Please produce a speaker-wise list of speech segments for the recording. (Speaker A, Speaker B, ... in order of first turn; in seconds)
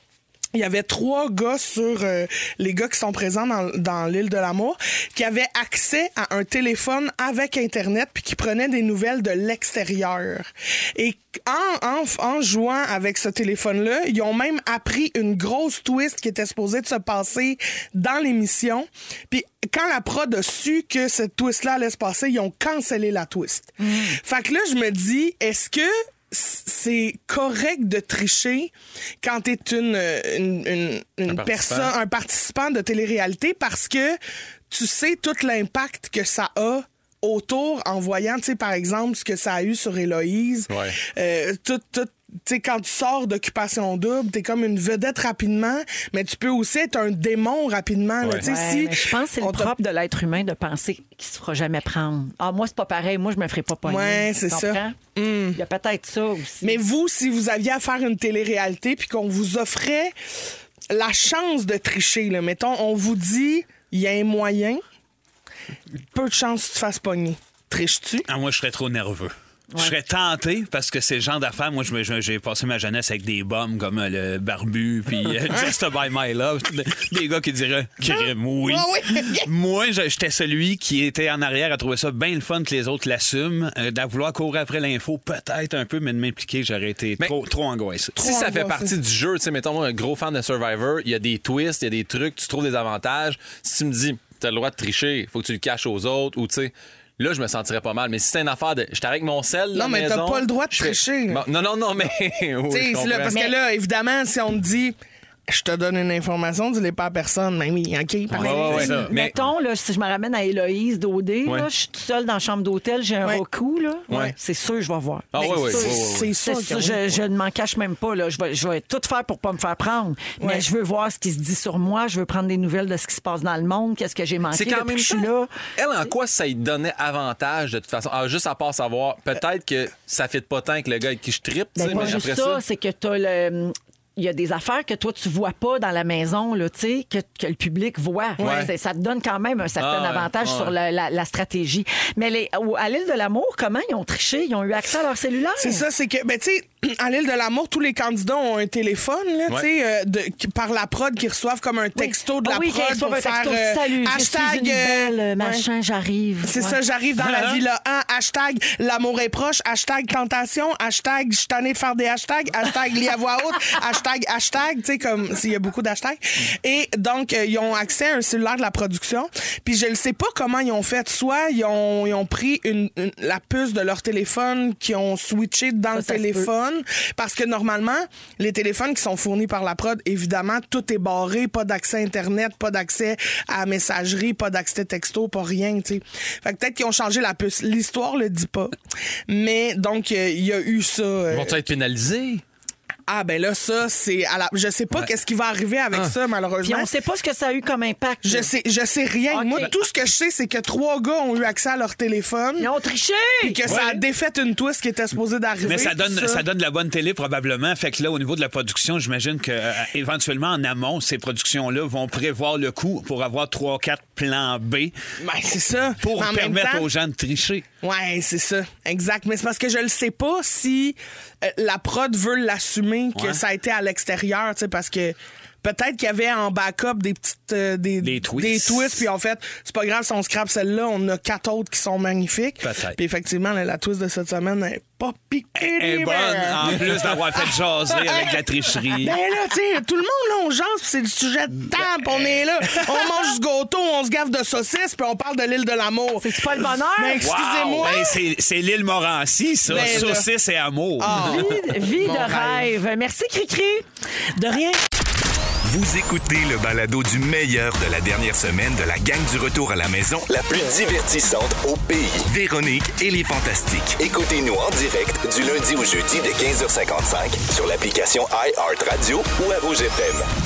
Speaker A: 0.5-34.2, 34.7-49.7, 53.9-55.6, 56.6-60.1, 60.9-64.8, 66.1-68.3, 78.0-79.5, 88.2-88.9, 99.7-101.4, 102.7-105.0, 105.5-109.1, 114.1-114.3, 115.4-117.1, 120.4-120.7, 138.4-138.7, 145.6-155.6, 156.4-188.8, 189.3-191.6, 193.1-196.9, 198.2-202.7, 203.4-206.4, 215.2-216.9, 217.8-248.2, 249.6-250.3, 251.0-252.7
Speaker B: 23.8-24.1, 48.4-55.0, 55.6-56.8, 108.3-125.5, 131.8-145.8, 151.9-156.8, 175.9-176.5, 196.6-198.5, 199.3-199.7, 202.6-203.7, 246.2-247.3, 251.0-253.8
Speaker C: 31.3-31.9, 40.7-41.0, 48.2-48.5, 88.2-103.6, 108.3-109.3, 115.3-116.3, 124.5-132.6, 138.4-138.7, 139.8-140.7, 191.3-192.4
Speaker D: 68.2-88.3, 157.2-157.6, 205.6-214.9, 216.0-217.6, 223.1-223.4, 228.0-229.1, 232.6-233.0, 235.6-239.2, 247.2-251.4
Speaker E: 255.6-270.3